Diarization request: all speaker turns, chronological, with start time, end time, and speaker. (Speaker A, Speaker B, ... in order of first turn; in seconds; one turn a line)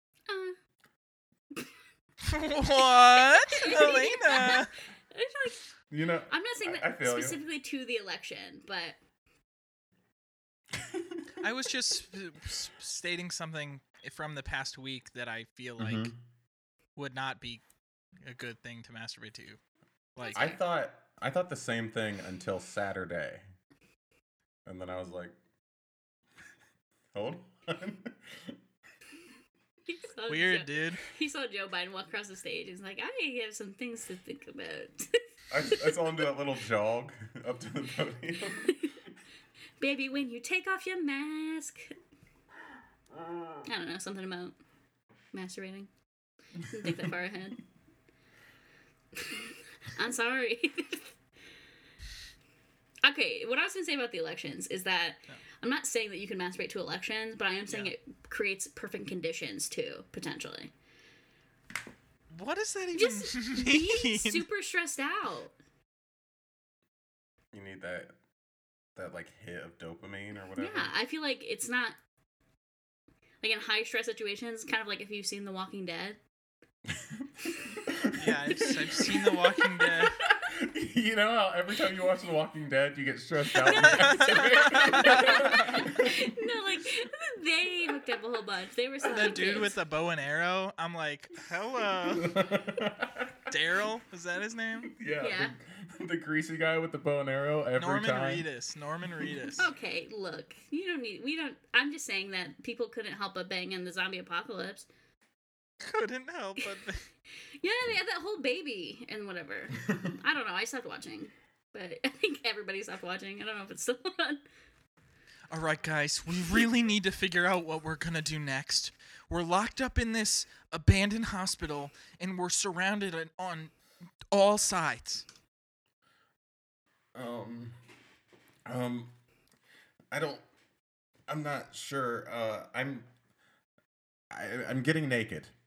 Speaker A: 0.3-0.6
Speaker B: 2.2-4.7
Speaker A: 2.8-5.6
Speaker C: 5.9-7.4
Speaker A: 6.3-9.0
Speaker C: 10.7-11.2
Speaker B: 11.4-16.1
Speaker C: 15.8-16.2
Speaker B: 17.0-17.6
Speaker B: 18.2-19.6
Speaker B: 20.2-20.5
Speaker A: 20.2-20.6
Speaker C: 20.3-23.5
Speaker C: 24.7-25.4
Speaker C: 27.1-28.6
Speaker A: 29.9-35.2
Speaker B: 30.3-31.0
Speaker C: 35.5-38.7
Speaker A: 35.7-36.0
Speaker A: 38.6-38.9
Speaker A: 39.8-41.9
Speaker C: 43.1-43.5
Speaker A: 43.6-44.6
Speaker A: 45.3-45.9
Speaker A: 46.6-47.6
Speaker A: 49.2-51.1
Speaker A: 53.0-60.7
Speaker B: 62.3-64.5
Speaker A: 62.9-65.6
Speaker C: 67.5-68.2
Speaker C: 69.0-70.9
Speaker A: 70.6-72.0
Speaker A: 73.4-76.2
Speaker C: 76.9-77.3
Speaker C: 77.8-79.2
Speaker B: 78.2-80.2
Speaker A: 78.5-80.3
Speaker C: 80.2-86.2
Speaker A: 83.5-89.8
Speaker B: 83.5-85.8
Speaker B: 89.0-92.4
Speaker C: 92.0-93.5
Speaker B: 93.5-95.0
Speaker C: 94.9-98.5
Speaker A: 95.2-95.5
Speaker B: 97.8-99.7
Speaker A: 99.6-104.9
Speaker B: 105.8-107.0
Speaker A: 107.6-114.4
Speaker B: 115.5-123.7
Speaker B: 124.3-125.2
Speaker C: 127.1-127.8
Speaker C: 128.7-129.1
Speaker C: 130.1-130.4
Speaker C: 131.3-133.1
Speaker C: 134.3-135.5